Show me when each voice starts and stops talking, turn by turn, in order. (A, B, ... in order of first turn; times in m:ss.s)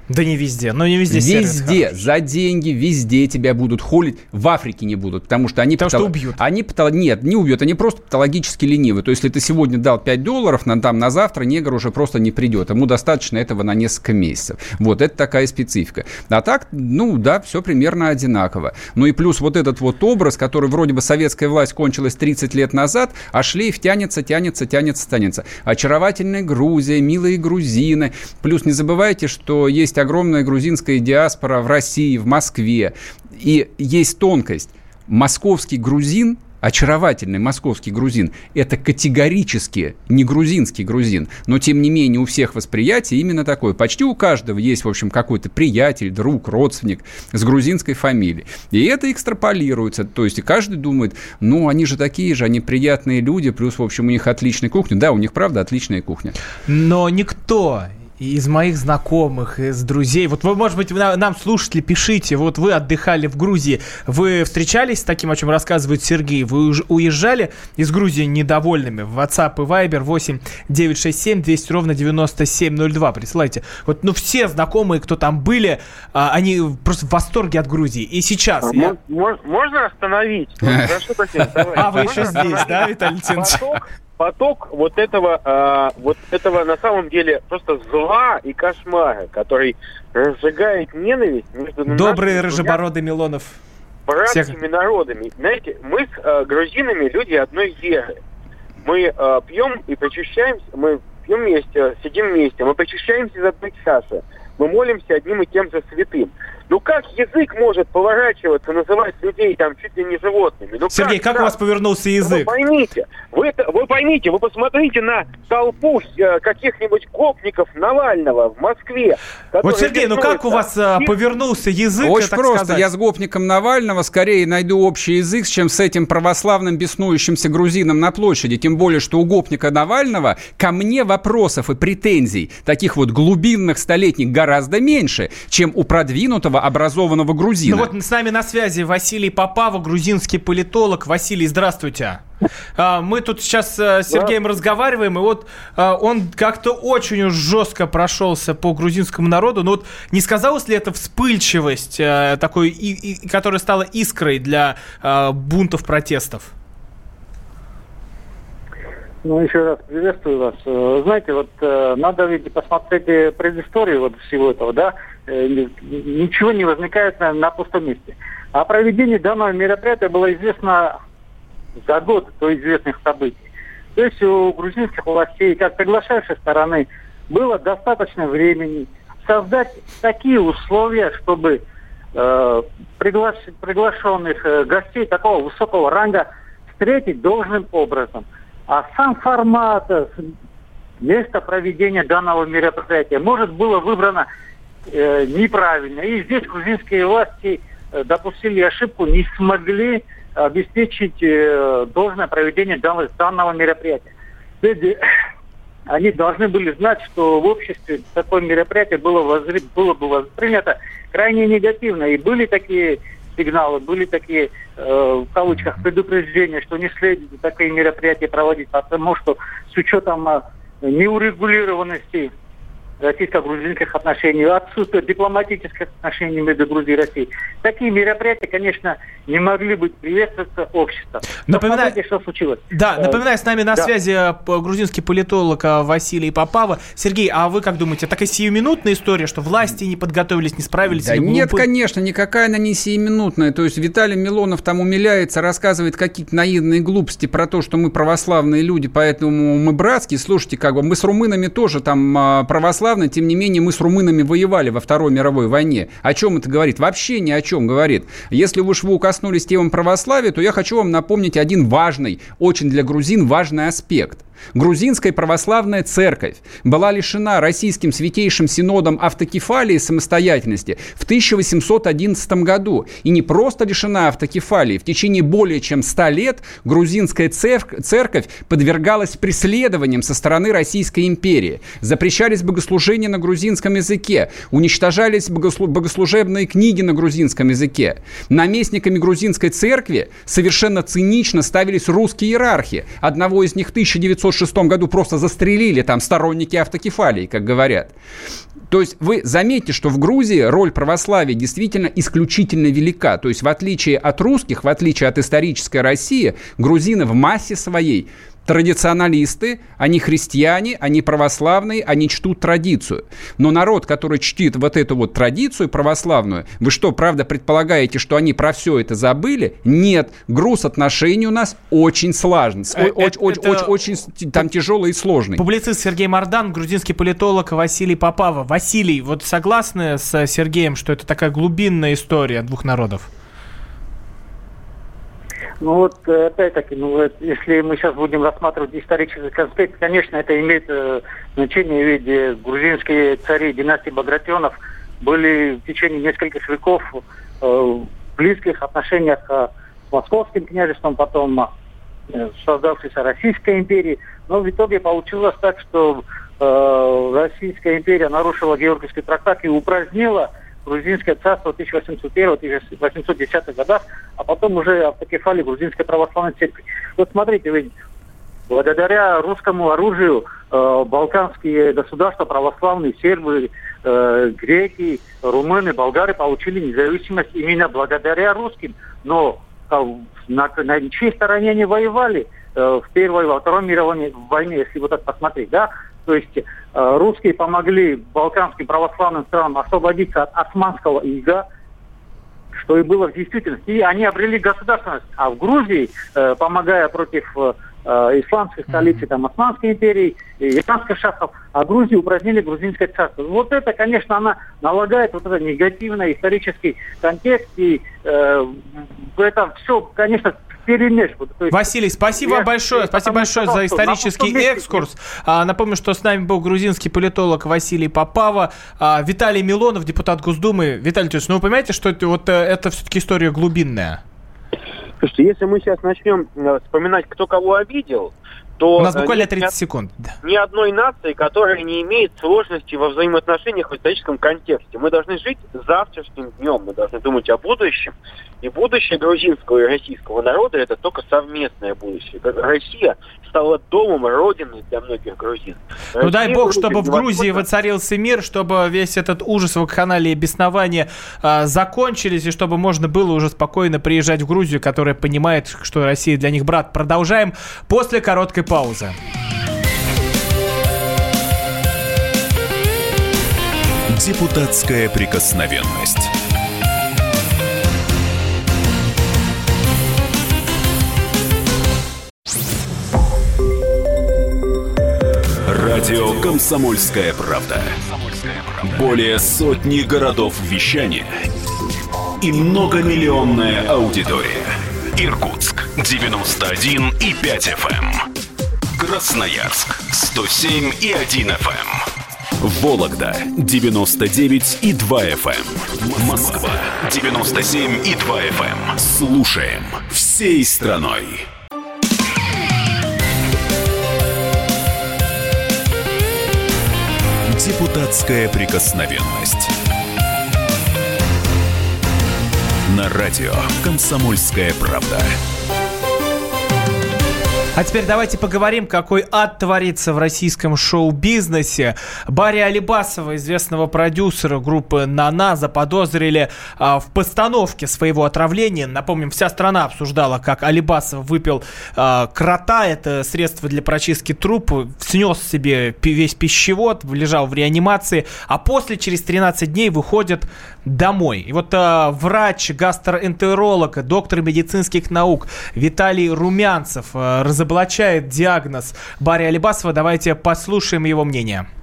0:00.1-0:02.0 A
0:01.1-0:56.4 B
0:05.8-0:06.4 A
0:56.7-1:18.9 A
1:18.6-1:32.8 C
1:21.8-1:23.6 A
1:31.9-1:33.6 A
1:34.1-1:38.2 C
1:34.3-1:34.6 A
1:38.8-1:51.6 C
1:50.9-1:52.5 A
1:52.2-2:01.1 C
1:59.6-2:02.9 A
2:02.0-2:17.9 B
2:17.7-2:22.2 A
2:22.8-2:36.5 A
2:39.2-2:51.0 D
2:51.8-2:53.4 D
2:54.0-3:01.6 D
3:02.2-3:10.2 D
3:11.0-3:14.3 D
3:14.9-3:24.1 D
3:24.6-3:25.0 D
3:25.9-3:42.3 D
3:43.0-3:53.2 D
3:51.5-3:52.0 A
3:52.7-4:01.7 A
4:00.9-4:57.9 B
4:58.7-5:25.4 B
5:22.7-5:23.7 A
5:25.4-5:33.1 A
5:35.6-5:51.5 D
5:52.1-6:07.7 D
6:08.5-6:31.4 D
6:32.6-6:54.9 D
6:51.5-7:04.0 A
7:05.0-7:09.5 C
7:08.8-7:10.1 A
7:10.2-7:27.4 C
7:26.0-7:39.0 A
7:43.9-7:46.1 E
7:55.5-8:01.2 E
8:02.2-8:08.1 E
8:08.8-8:11.8 E
8:12.4-8:21.3 E
8:27.3-8:29.5 E
8:32.7-8:35.2 E
8:37.6-9:11.5 A